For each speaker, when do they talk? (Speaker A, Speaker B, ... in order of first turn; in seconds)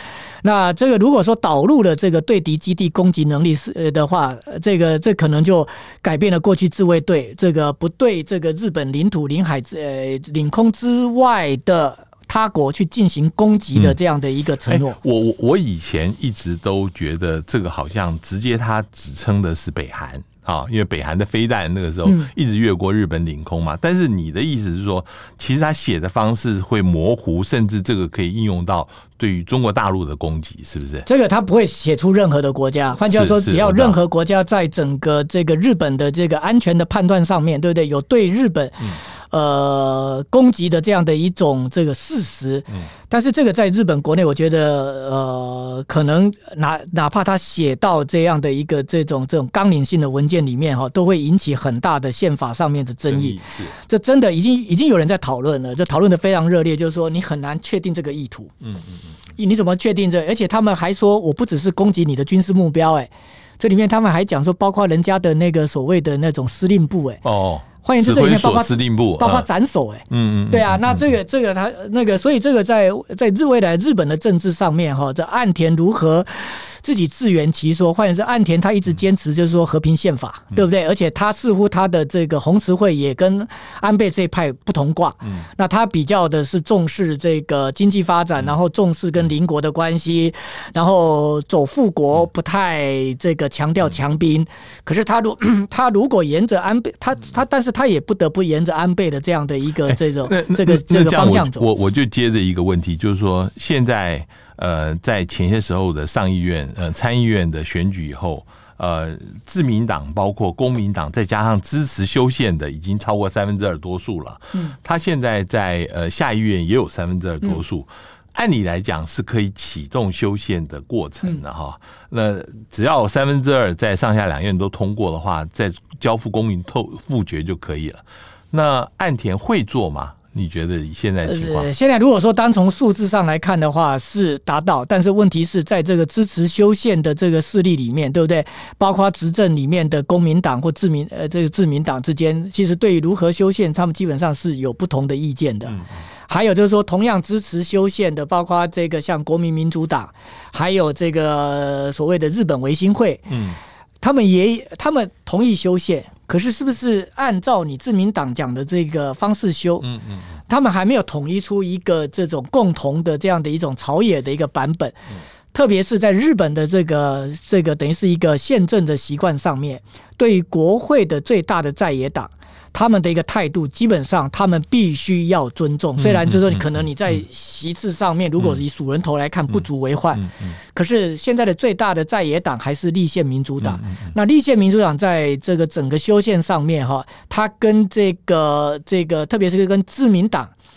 Speaker A: 0.4-15.0, 22.0-22.3, 31.1-58.5, 59.4-67.2, 67.8-101.6, 131.2-153.3, 154.0-159.8, 160.5-165.0, 165.5-190.5
Speaker B: 14.7-31.1, 33.1-34.0, 53.1-53.8, 58.6-59.1, 67.2-69.5, 70.1-71.1, 99.9-131.7, 145.7-146.0, 153.3-153.6, 159.8-160.4, 176.0-176.6, 180.2-180.5, 183.6-184.1